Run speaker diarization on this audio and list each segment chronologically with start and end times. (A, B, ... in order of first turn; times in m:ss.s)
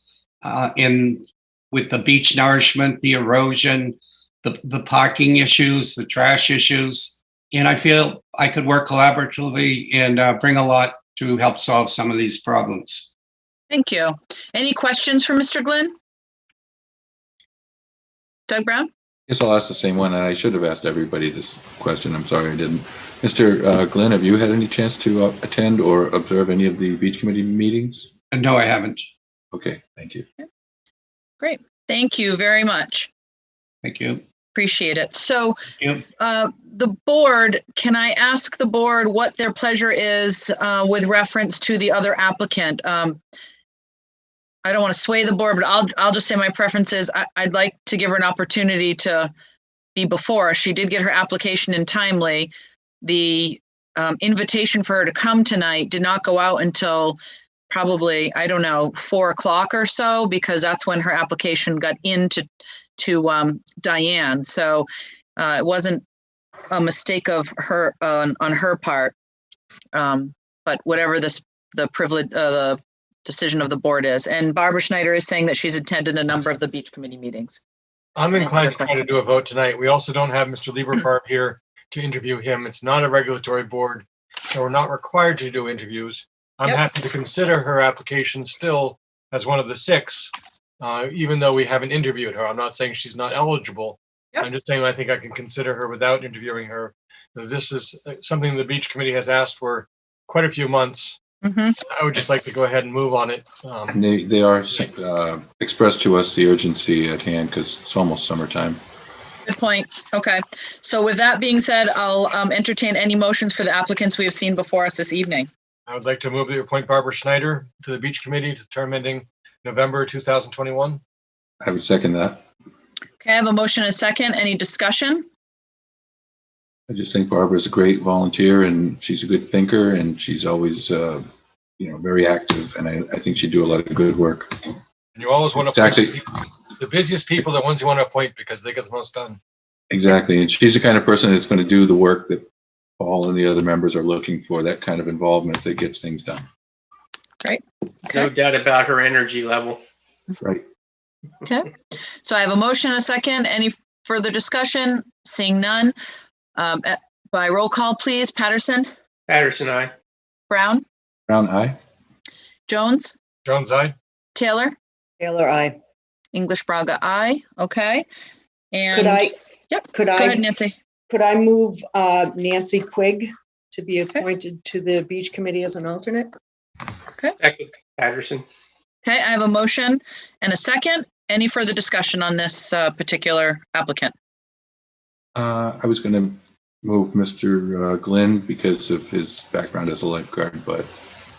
0:00.4-0:13.1 A
0:13.7-0:15.9 B
0:18.5-0:18.9 B
0:19.3-0:28.1 C
0:28.3-0:29.1 A
0:29.5-0:30.2 C
0:31.4-0:33.1 B
0:33.8-0:34.2 A
0:34.5-0:35.6 B
0:35.8-0:36.0 A
0:36.2-0:43.2 B
0:44.6-0:49.3 B
0:49.9-0:52.5 B
0:53.0-0:57.2 B
0:57.7-1:02.4 B
1:03.0-1:06.0 B
1:06.7-1:09.2 B
1:09.9-1:17.6 B
1:18.2-1:41.2 D
1:18.3-1:19.1 B
1:41.4-1:41.8 B
1:41.8-1:44.0 D
1:43.9-1:48.8 C
1:49.4-1:55.5 B
1:55.9-2:01.0 D
2:01.6-2:02.4 C
2:03.2-2:05.2 B
2:06.9-2:11.2 C
2:11.8-2:14.7 C
2:15.1-2:16.2 D
2:15.6-2:16.2 C
2:16.7-2:19.4 D
2:19.9-2:22.4 C
2:23.0-2:26.4 C
2:27.4-2:28.3 B
2:28.1-2:29.8 E
2:32.2-2:35.9 B
2:36.6-2:38.9 B
2:39.3-2:39.9 E
2:40.5-2:40.8 B
2:41.3-2:41.8 C
2:42.7-2:43.1 B
2:43.4-2:43.9 D
2:44.3-2:44.8 B
2:45.2-2:45.8 F
2:46.3-2:48.0 B
2:48.7-2:50.8 B
2:48.9-2:49.3 F
2:49.9-2:50.4 F
2:51.1-2:56.3 F
2:57.4-2:58.4 E
2:59.0-3:04.1 B
3:05.3-3:10.9 C